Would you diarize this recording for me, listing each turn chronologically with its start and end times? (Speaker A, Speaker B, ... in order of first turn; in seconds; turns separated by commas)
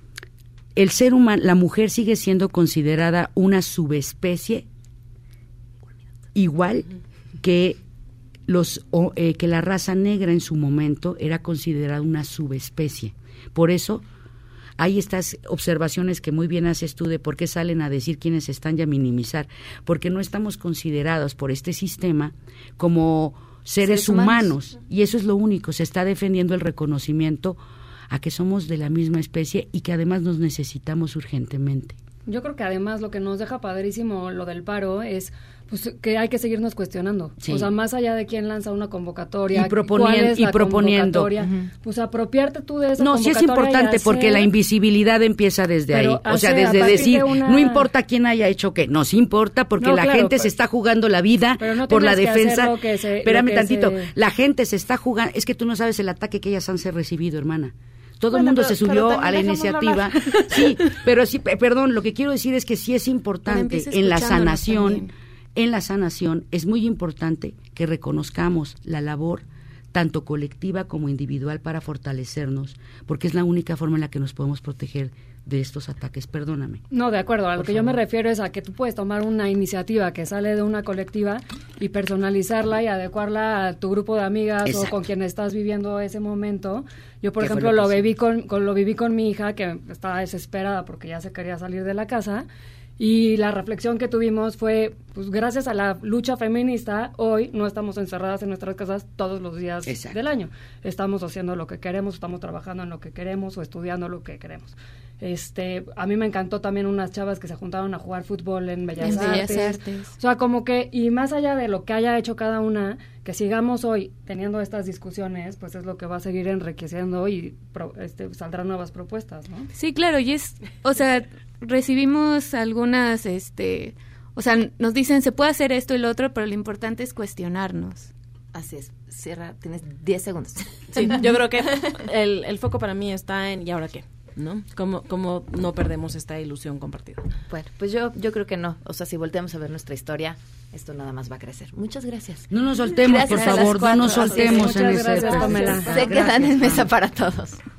Speaker A: 0.8-4.7, Speaker A: 6.3-6.9, Speaker A: 7.4-7.8, Speaker A: 8.5-14.0, Speaker A: 14.8-27.6, Speaker B: 23.9-24.5, Speaker A: 28.1-32.0, Speaker C: 32.3-44.5, Speaker A: 37.4-37.7, Speaker A: 39.5-41.3, Speaker B: 41.4-41.7, Speaker A: 43.0-76.8, Speaker C: 45.9-47.9, Speaker C: 49.8-50.5, Speaker C: 51.6-54.1, Speaker D: 58.3-60.1, Speaker E: 63.5-65.1, Speaker C: 76.9-92.5, Speaker A: 77.6-78.0, Speaker A: 84.6-85.0, Speaker A: 87.4-88.2, Speaker C: 93.0-119.7, Speaker A: 99.9-100.2, Speaker E: 109.0-110.1, Speaker E: 119.8-128.1, Speaker B: 128.5-131.2, Speaker D: 130.9-137.3, Speaker B: 137.5-147.6, Speaker A: 142.5-146.9, Speaker E: 143.2-144.0, Speaker C: 144.2-146.8